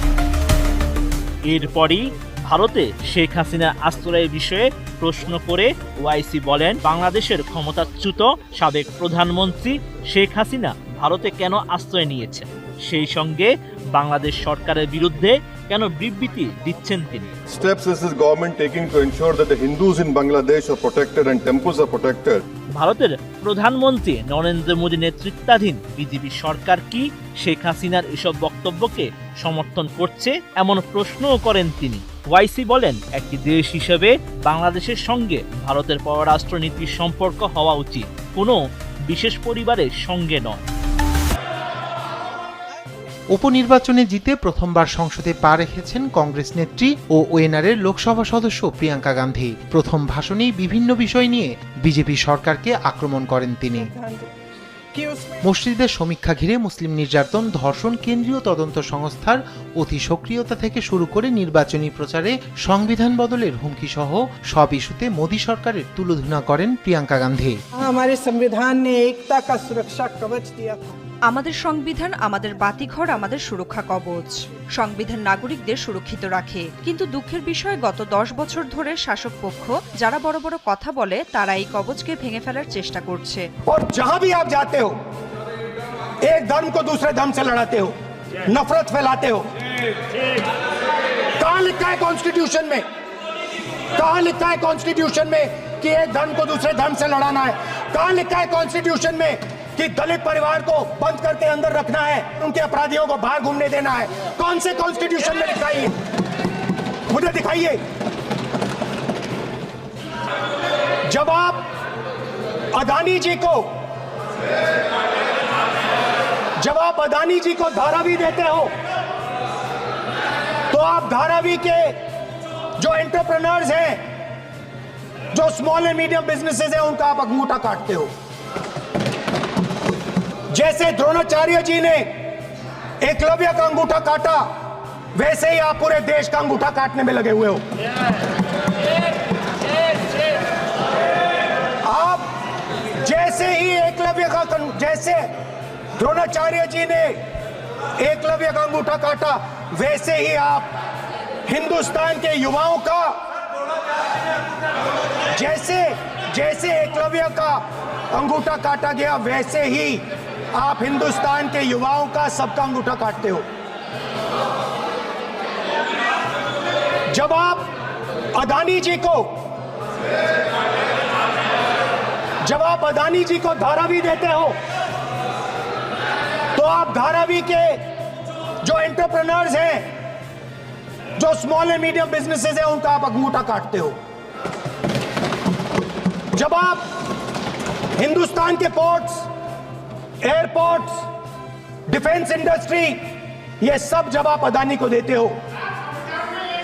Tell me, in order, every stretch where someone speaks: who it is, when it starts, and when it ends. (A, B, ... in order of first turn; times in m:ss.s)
0:01.5-0:17.3 A
0:17.5-0:22.4 B
0:22.8-0:38.6 A
0:39.1-0:40.6 A
0:43.3-0:53.9 C
0:53.7-0:54.2 D
0:54.9-0:55.5 D
0:55.4-1:07.6 C
1:07.8-1:11.0 D
1:11.3-1:23.4 E
1:23.7-1:24.9 F
1:26.2-1:27.9 F
1:28.5-1:29.4 F
1:31.4-1:32.8 F
1:34.0-1:45.9 F
1:47.1-1:47.8 F
1:51.1-1:51.6 F
1:52.7-1:53.7 F
1:56.6-1:58.7 F
2:00.7-2:01.9 F
2:02.8-2:04.0 F
2:05.3-2:08.1 F
2:10.5-2:12.1 F
2:13.0-2:14.4 F
2:15.2-2:17.6 F
2:21.8-2:22.2 F
2:23.0-2:25.2 F
2:26.0-2:27.2 F
2:28.0-2:30.7 F
2:31.5-2:33.1 F
2:35.3-2:37.6 F
2:38.1-2:40.0 F
2:40.5-2:43.4 F
2:47.1-2:47.7 F
2:48.4-2:49.3 F
2:52.4-2:54.5 F
2:56.6-2:57.8 F
2:58.6-2:59.8 F
3:01.2-3:03.9 F
3:06.3-3:06.8 F
3:08.0-3:09.3 F
3:10.2-3:10.9 F
3:11.9-3:13.0 F
3:13.6-3:15.4 F